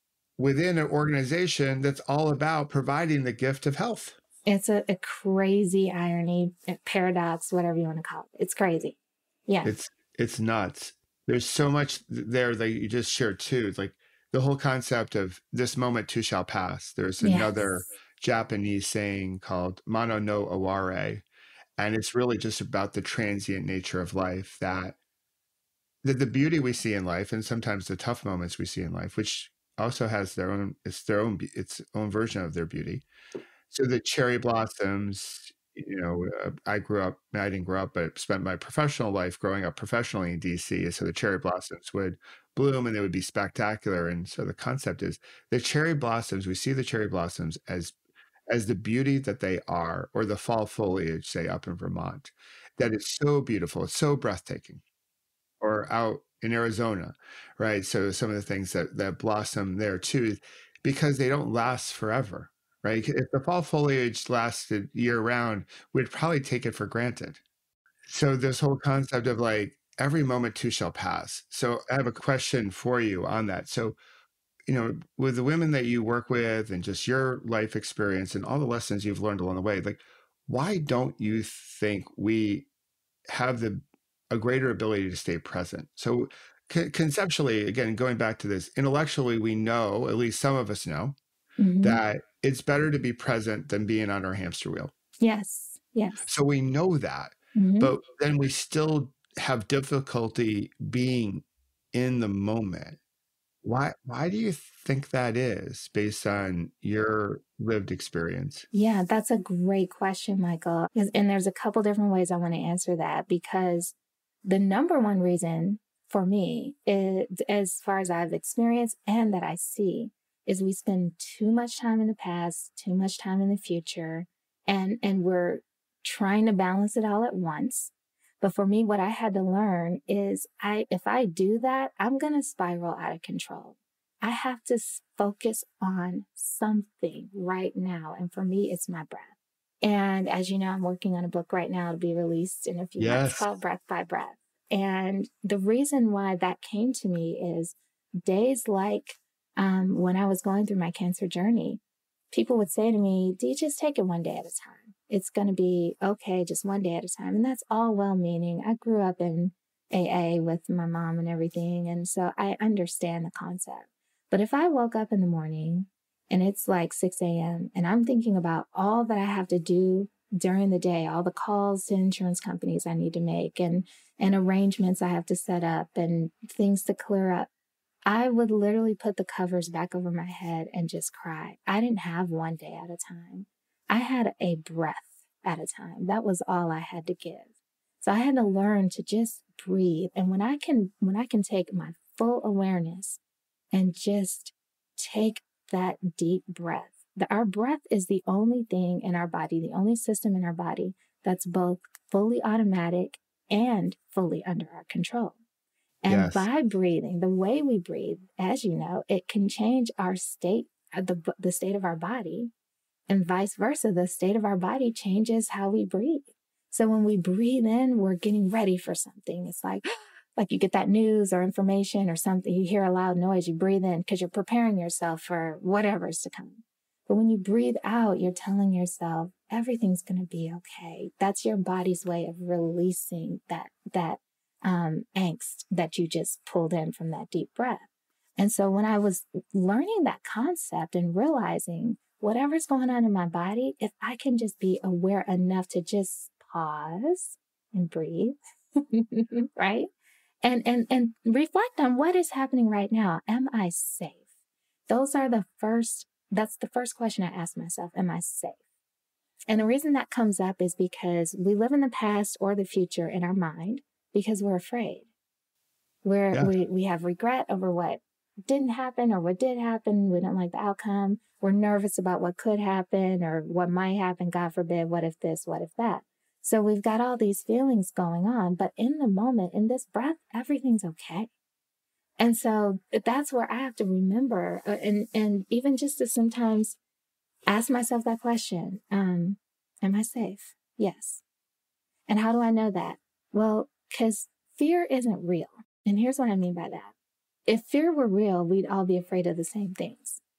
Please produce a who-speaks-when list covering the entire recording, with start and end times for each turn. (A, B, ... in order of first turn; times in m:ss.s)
0:00.4-0:04.2 A
0:04.4-0:09.7 B
0:09.6-0:21.2 A
0:17.2-0:17.8 B
0:21.8-0:25.0 A
0:26.0-0:33.0 A
0:33.7-0:47.9 A
0:48.5-0:54.8 A
0:55.6-1:07.4 A
1:08.0-1:14.0 A
1:14.7-1:22.7 A
1:23.3-1:31.2 A
1:31.6-1:32.0 B
1:31.8-1:34.9 A
1:35.2-1:36.3 B
1:36.2-1:43.0 A
1:37.5-1:37.9 B
1:43.6-1:48.7 A
1:48.7-2:57.5 B
2:23.0-2:23.5 A
2:58.0-3:07.5 B
3:08.0-3:13.2 B
3:13.7-3:25.4 B
3:26.0-3:32.5 B
3:26.1-3:26.5 A
3:33.1-3:57.8 B
3:58.4-4:08.4 B
4:08.9-4:09.9 B
4:10.4-4:14.2 B
4:14.9-4:18.6 B
4:19.5-4:25.1 B
4:26.0-4:41.3 B
4:42.2-4:46.8 B
4:47.5-4:51.2 B
4:52.1-4:56.9 B
4:57.5-5:00.2 B